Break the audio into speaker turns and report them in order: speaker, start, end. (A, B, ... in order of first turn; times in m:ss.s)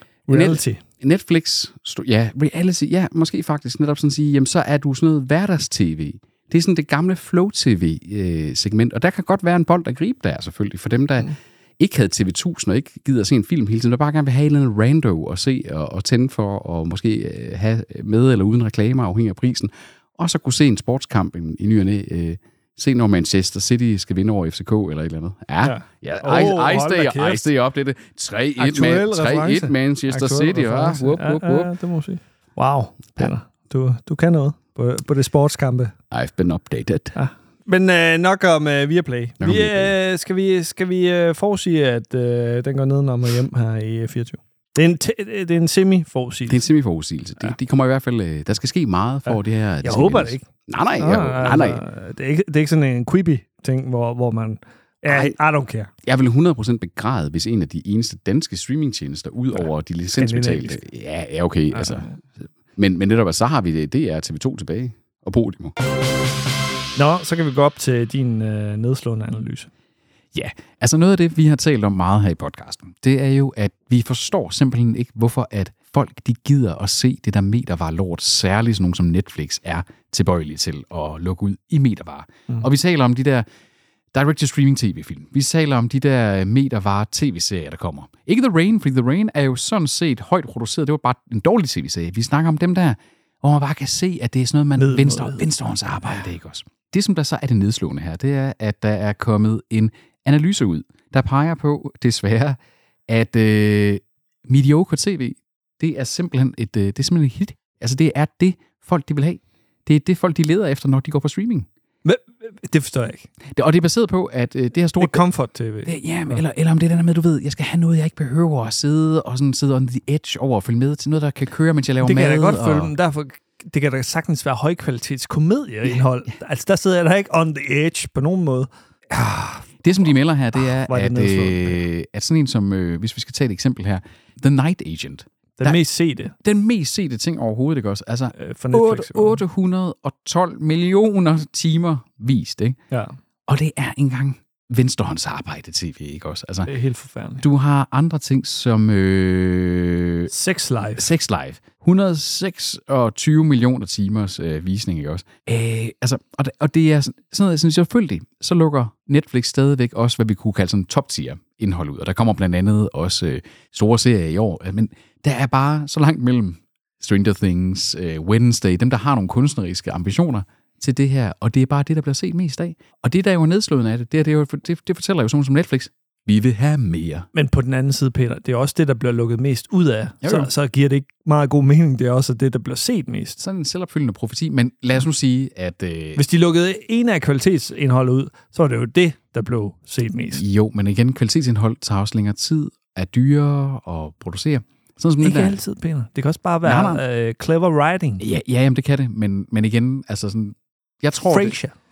0:00.3-0:00.8 A
0:00.3-0:31.7 B
0:25.6-0:27.5 A
0:28.6-0:35.9 A
0:36.1-0:37.1 B
0:37.1-0:46.6 A
0:39.4-0:39.9 B
0:46.5-0:51.8 B
0:49.8-0:50.4 A
0:51.0-0:55.9 A
0:55.1-0:55.3 B
0:56.0-1:02.1 B
1:00.1-1:00.8 A
1:01.7-1:02.2 A
1:02.8-1:05.7 B
1:07.0-1:09.7 A
1:10.3-1:23.4 B
1:24.1-1:51.7 B
1:34.8-1:35.4 A
1:52.0-1:53.3 A
1:53.5-1:55.2 B
1:55.0-1:56.4 A
1:55.8-2:02.9 B
2:02.0-2:09.7 A
2:09.8-2:15.8 B
2:10.6-2:11.8 A
2:15.6-2:16.4 A
2:16.4-2:22.8 B
2:18.3-2:19.4 A
2:23.5-2:26.7 B
2:26.6-2:27.4 A
2:27.4-2:30.3 B
2:30.3-2:31.1 A
2:31.0-2:57.3 B
2:57.3-3:03.4 A
3:00.2-3:00.5 B
3:03.4-3:06.2 B
3:06.2-3:10.4 A
3:10.3-3:15.6 B
3:15.2-3:18.2 A
3:16.6-3:17.0 B
3:18.2-3:21.6 B
3:21.2-3:21.7 A